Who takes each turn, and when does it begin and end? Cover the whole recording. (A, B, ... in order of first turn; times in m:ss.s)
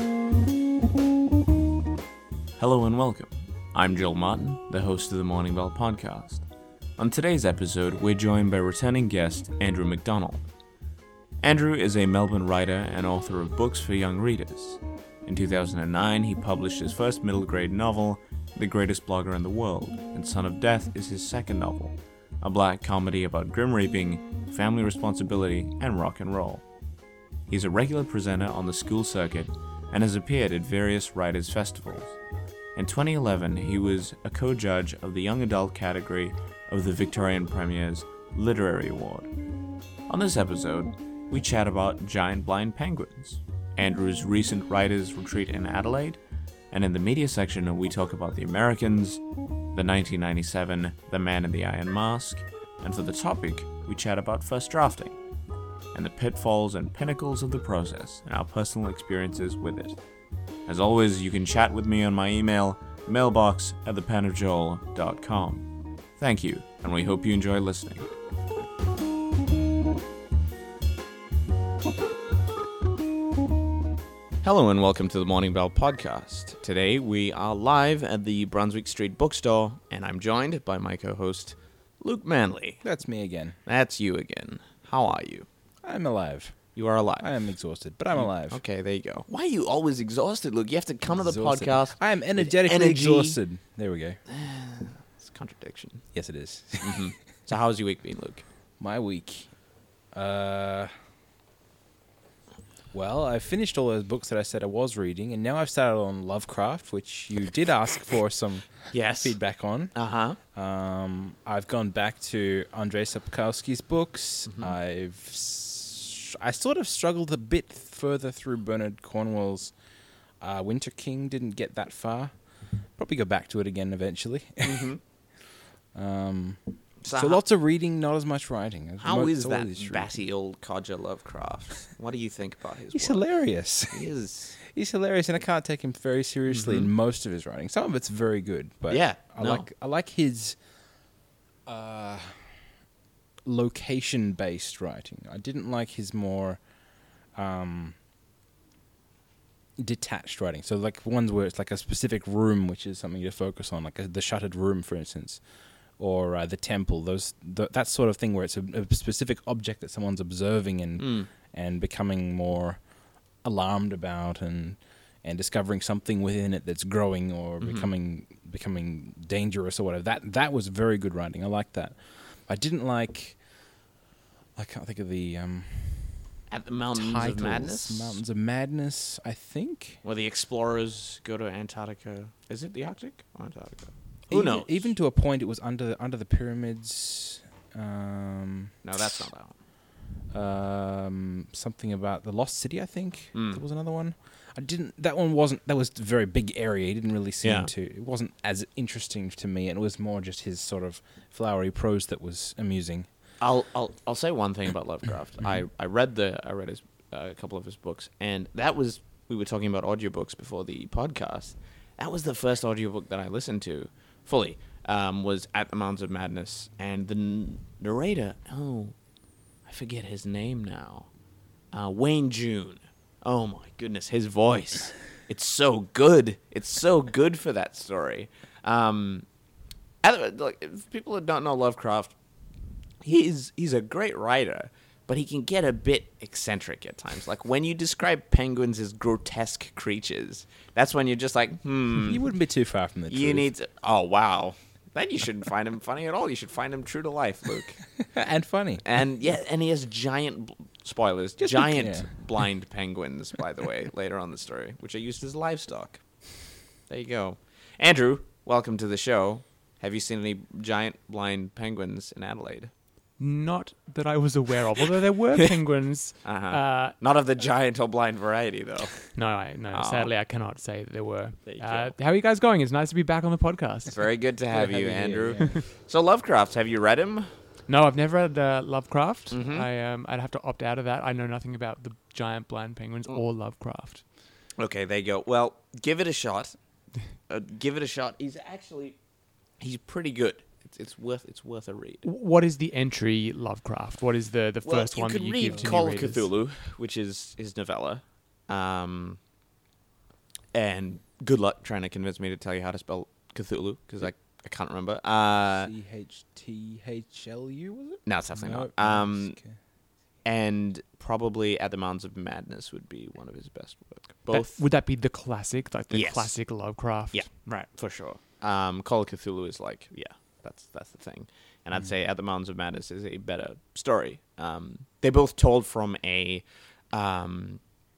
0:02.6-0:10.5 A
0:11.4-0:26.7 A
0:27.5-0:32.2 A
0:32.8-0:39.3 A
0:40.1-0:46.2 A
0:46.7-0:55.2 A
0:55.9-1:00.0 A
1:00.7-1:08.1 A
1:14.4-1:25.5 A
1:22.8-1:23.6 B
1:25.8-1:28.6 B
1:26.8-1:33.5 A
1:31.1-1:34.2 B
1:34.3-1:38.5 A
1:36.1-1:37.2 B
1:38.8-1:40.9 B
1:42.9-1:59.8 B
1:48.9-1:50.4 A
1:54.5-1:54.7 A
2:00.4-2:05.2 B
2:04.6-2:05.0 A
2:05.9-2:10.2 B
2:07.0-2:07.4 A
2:09.0-2:14.6 A
2:12.9-2:20.7 B
2:16.5-2:16.9 A
2:18.9-2:19.7 A
2:21.6-2:22.7 B
2:23.5-2:28.0 B
2:29.8-2:53.8 B
2:41.0-2:41.3 A
2:47.6-2:47.9 A
2:54.6-3:00.0 B
2:56.5-2:58.2 A
3:00.0-3:04.9 A
3:04.3-3:09.3 B
3:08.8-3:09.6 A
3:10.3-3:23.1 B
3:13.3-3:13.6 A
3:17.4-3:17.7 A
3:23.4-3:39.1 A
3:25.4-3:25.7 B
3:39.6-3:41.2 A
3:41.7-3:49.3 A
3:50.0-3:52.2 A
3:53.0-4:02.3 A
4:01.9-4:03.5 B
4:03.1-4:08.1 A
4:08.0-4:08.9 B
4:08.8-4:22.7 A
4:11.4-4:12.5 B
4:23.2-4:27.0 C
4:26.2-4:30.1 A
4:29.1-4:34.0 C
4:31.4-4:32.0 A
4:34.0-4:37.4 A
4:34.5-4:35.6 B
4:37.7-4:44.1 C
4:39.3-4:39.7 A
4:44.6-4:49.0 A
4:49.6-4:52.0 A
4:52.0-4:56.3 C
4:54.6-4:59.2 A
4:55.4-4:55.8 B
5:00.5-5:05.7 A
5:05.6-5:09.6 B
5:08.1-5:09.7 A
5:10.2-5:14.7 A
5:14.3-5:17.7 C
5:15.9-5:27.7 A